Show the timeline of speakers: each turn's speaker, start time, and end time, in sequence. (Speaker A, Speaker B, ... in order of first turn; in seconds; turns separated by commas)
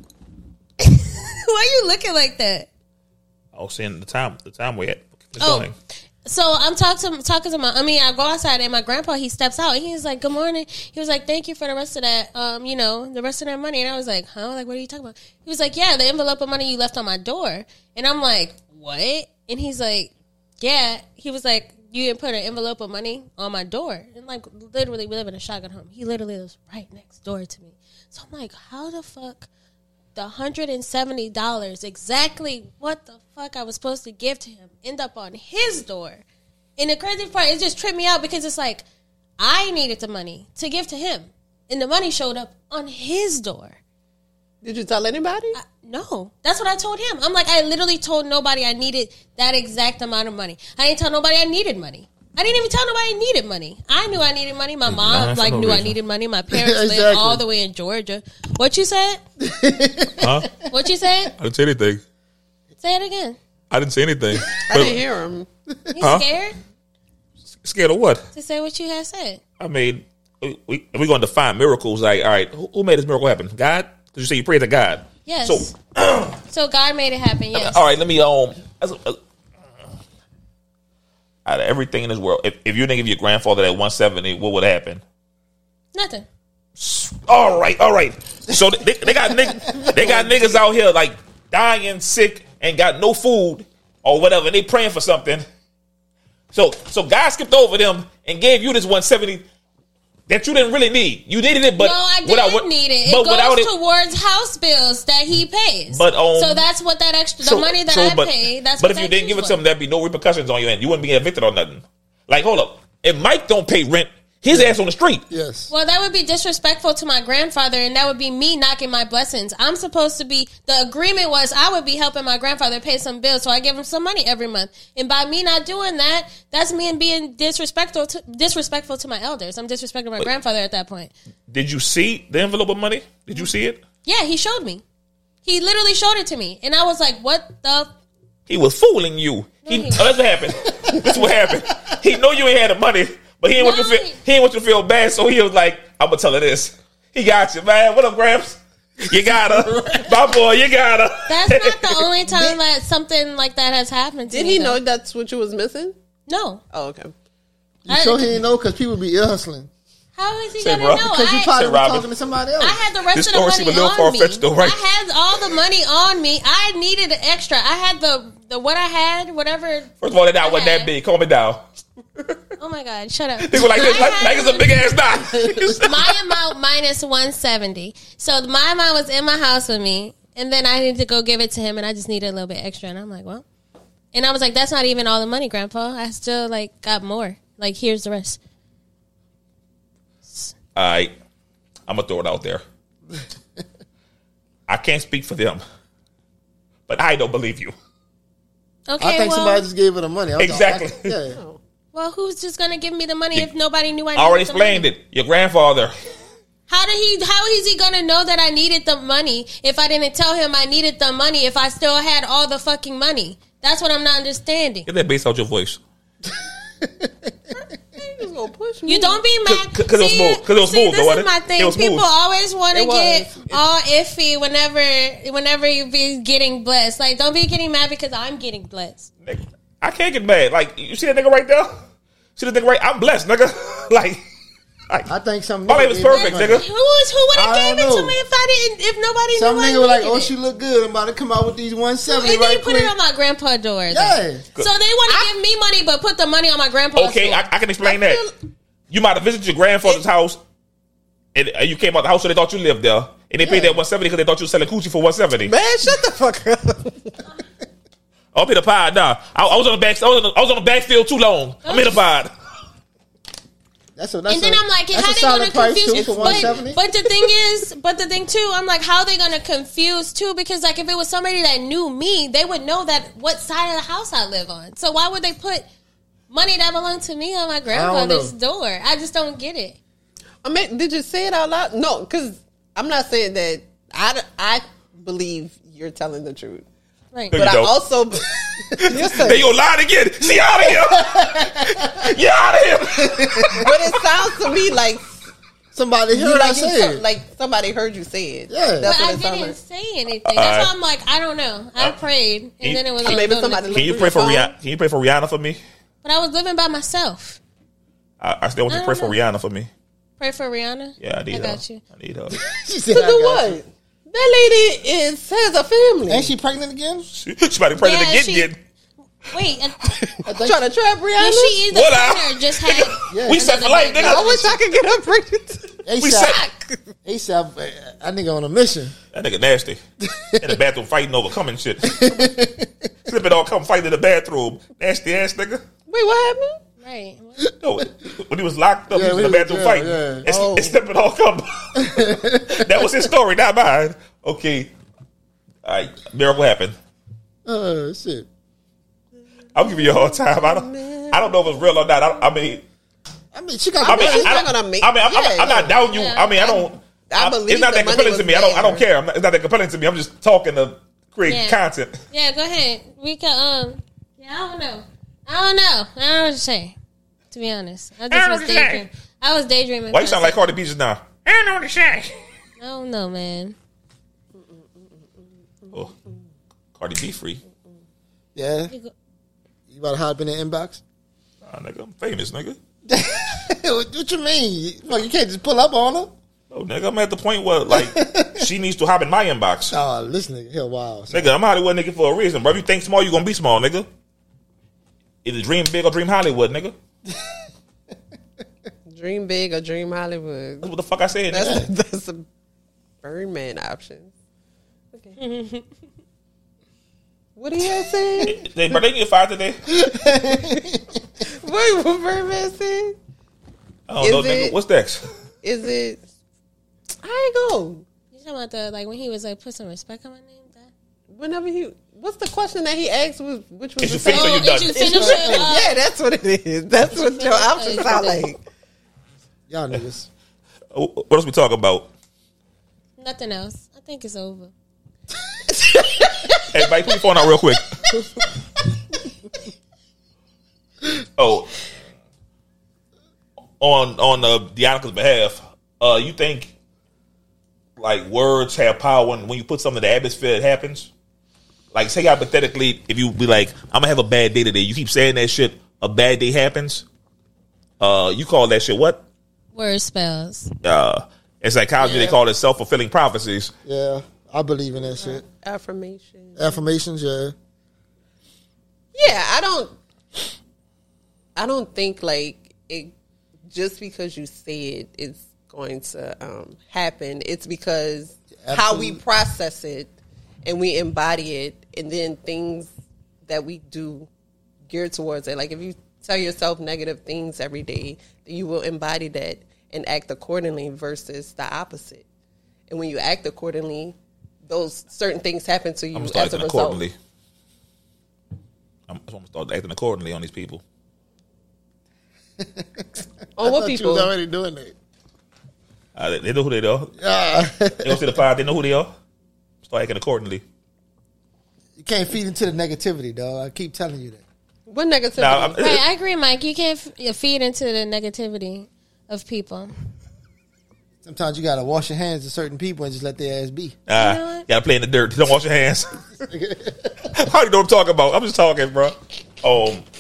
Speaker A: 0.8-2.7, Speaker B: 3.5-5.7, Speaker A: 5.4-5.7, Speaker A: 6.2-29.5, Speaker A: 30.1-36.2, Speaker A: 36.8-38.8, Speaker A: 39.4-43.8, Speaker C: 44.6-45.6, Speaker A: 45.5-59.2, Speaker B: 54.9-55.9, Speaker D: 56.5-57.4, Speaker D: 59.4-60.5, Speaker B: 60.2-60.5, Speaker A: 60.7-61.3, Speaker B: 61.4-62.0, Speaker A: 62.8-63.4, Speaker B: 63.7-65.0, Speaker C: 64.7-65.5, Speaker A: 65.9-66.5, Speaker B: 66.0-66.2, Speaker B: 67.6-68.2, Speaker A: 68.3-69.4, Speaker B: 69.6-76.4, Speaker A: 75.2-75.7, Speaker A: 76.5-77.8, Speaker B: 77.5-79.2, Speaker B: 81.4-85.0, Speaker A: 85.9-86.2, Speaker B: 86.8-95.4, Speaker D: 88.5-90.2, Speaker B: 96.5-99.4, Speaker B: 100.3-103.7, Speaker A: 101.8-109.6, Speaker B: 105.9-106.6, Speaker B: 107.4-115.2, Speaker D: 115.3-115.7, Speaker A: 115.7-131.1, Speaker B: 131.5-133.8, Speaker A: 134.0-134.8, Speaker A: 135.4-137.9, Speaker B: 138.5-152.0, Speaker A: 139.6-140.1, Speaker D: 140.9-141.4, Speaker A: 143.6-144.2, Speaker D: 149.2-150.3, Speaker A: 151.3-154.8, Speaker C: 154.3-155.9, Speaker A: 156.3-156.6, Speaker C: 156.7-157.1, Speaker D: 157.8-159.7, Speaker A: 157.9-158.4, Speaker A: 160.2-161.6, Speaker B: 160.6-162.1, Speaker D: 161.0-162.8, Speaker A: 162.6-170.9, Speaker B: 163.1-164.8, Speaker B: 170.0-171.6, Speaker A: 172.6-174.8, Speaker B: 173.4-176.2, Speaker D: 175.3-175.7, Speaker A: 175.8-183.4, Speaker A: 184.1-188.4, Speaker A: 190.3-190.5, Speaker B: 190.7-191.1, Speaker B: 191.9-192.6, Speaker B: 194.7-195.6, Speaker B: 196.9-197.7, Speaker A: 198.9-199.6, Speaker D: 199.0-201.4, Speaker B: 200.4-201.2, Speaker C: 201.3-201.6, Speaker A: 201.9-204.9, Speaker B: 204.2-205.9, Speaker A: 206.7-214.9, Speaker B: 214.9-215.8, Speaker D: 216.8-217.1, Speaker C: 217.5-219.2, Speaker A: 218.8-229.1, Speaker B: 219.4-222.0, Speaker C: 222.7-223.6, Speaker B: 229.2-231.8, Speaker B: 232.3-234.2, Speaker D: 235.1-236.7, Speaker B: 235.7-236.6, Speaker A: 236.1-240.3, Speaker D: 237.3-238.2, Speaker D: 239.3-242.9, Speaker A: 242.1-247.4, Speaker D: 243.9-244.4, Speaker B: 246.9-248.2, Speaker C: 247.8-248.3, Speaker B: 248.9-250.4, Speaker B: 251.3-255.5, Speaker D: 253.4-253.8, Speaker C: 255.4-257.2, Speaker B: 258.3-262.3, Speaker A: 261.6-262.0, Speaker D: 263.9-266.8, Speaker A: 264.3-275.6, Speaker B: 266.1-266.4, Speaker A: 276.3-279.8, Speaker D: 277.7-278.3, Speaker C: 280.4-286.6, Speaker B: 287.3-287.7, Speaker C: 287.3-289.6, Speaker B: 288.8-293.9, Speaker D: 290.8-292.1, Speaker D: 292.9-293.7, Speaker C: 293.6-295.2, Speaker D: 295.7-297.0, Speaker C: 296.1-299.6, Speaker D: 298.5-298.9, Speaker A: 298.8-304.0, Speaker B: 300.2-300.7, Speaker B: 302.6-305.6, Speaker C: 303.0-304.5, Speaker A: 306.0-307.4, Speaker B: 308.2-309.7, Speaker A: 308.7-309.2, Speaker A: 310.2-311.8, Speaker B: 311.0-312.4, Speaker D: 312.3-313.6, Speaker C: 312.9-316.3, Speaker D: 316.1-317.1, Speaker B: 317.1-318.6, Speaker A: 317.8-318.5, Speaker A: 319.3-319.9, Speaker C: 320.1-321.6, Speaker D: 320.2-320.6, Speaker A: 321.2-324.4, Speaker B: 321.7-324.5, Speaker D: 323.1-323.5, Speaker C: 323.9-326.8, Speaker D: 325.8-326.4, Speaker B: 326.0-326.4, Speaker D: 327.0-328.9, Speaker B: 329.1-329.8, Speaker D: 330.0-330.6, Speaker B: 330.4-332.1, Speaker D: 331.8-332.7, Speaker B: 333.1-335.6, Speaker C: 335.9-336.6, Speaker A: 336.8-337.4, Speaker B: 337.6-344.7, Speaker D: 338.9-340.3, Speaker C: 340.2-340.8, Speaker D: 341.8-343.1, Speaker B: 345.6-346.7, Speaker D: 347.4-348.3, Speaker B: 349.5-352.6, Speaker C: 349.6-351.7, Speaker D: 353.3-354.4, Speaker C: 353.8-355.8, Speaker B: 353.9-362.0, Speaker D: 355.4-355.7, Speaker A: 355.9-356.5, Speaker C: 356.4-358.8, Speaker A: 361.2-361.6, Speaker A: 362.1-366.8, Speaker A: 367.3-370.4, Speaker B: 368.1-368.8, Speaker B: 369.9-372.1, Speaker A: 372.6-373.6, Speaker C: 374.3-376.1, Speaker B: 376.8-377.4, Speaker D: 378.3-378.7, Speaker D: 379.7-380.8, Speaker B: 381.4-382.6, Speaker D: 382.9-386.1, Speaker B: 386.5-389.8, Speaker D: 387.7-388.4, Speaker D: 389.7-391.3, Speaker B: 391.1-393.9, Speaker B: 395.2-396.7, Speaker C: 398.9-400.7, Speaker B: 400.6-401.6, Speaker C: 401.3-402.2, Speaker C: 403.0-404.1, Speaker A: 405.2-405.6, Speaker C: 407.4-408.5, Speaker B: 408.2-409.6, Speaker D: 409.7-410.9, Speaker C: 410.3-410.6, Speaker C: 411.2-412.9, Speaker B: 413.9-415.0, Speaker C: 414.0-414.5, Speaker C: 415.4-416.0, Speaker C: 417.0-417.8, Speaker A: 418.1-420.7, Speaker C: 421.1-428.4, Speaker B: 423.8-425.3, Speaker A: 424.0-425.8, Speaker A: 426.9-428.2, Speaker D: 429.5-430.1, Speaker B: 430.7-431.9, Speaker A: 433.0-434.5, Speaker C: 435.5-437.0, Speaker B: 436.5-437.7, Speaker C: 437.9-438.3, Speaker B: 441.2-441.6, Speaker B: 443.6-446.5, Speaker B: 447.8-450.9, Speaker B: 451.7-456.8, Speaker B: 457.8-459.0, Speaker A: 459.5-460.5, Speaker B: 460.6-463.5, Speaker C: 461.8-462.2, Speaker D: 463.6-465.2, Speaker C: 465.0-466.6, Speaker D: 466.4-467.3, Speaker C: 468.9-469.7, Speaker C: 471.4-472.9, Speaker C: 473.5-479.9, Speaker D: 478.4-479.0, Speaker C: 480.4-482.7, Speaker C: 483.3-484.1, Speaker C: 484.7-492.0, Speaker C: 492.7-493.9, Speaker C: 494.5-496.8, Speaker B: 495.9-496.9, Speaker B: 498.9-500.6, Speaker D: 502.4-504.7, Speaker C: 503.4-504.1, Speaker B: 505.9-506.9, Speaker D: 507.0-508.2, Speaker B: 507.8-508.9, Speaker B: 509.6-510.4, Speaker D: 511.8-514.2, Speaker C: 514.7-515.6, Speaker B: 515.2-515.8, Speaker A: 515.6-519.7, Speaker D: 521.0-523.8, Speaker B: 523.9-525.9, Speaker A: 523.9-524.5, Speaker D: 526.2-527.1, Speaker B: 527.1-529.8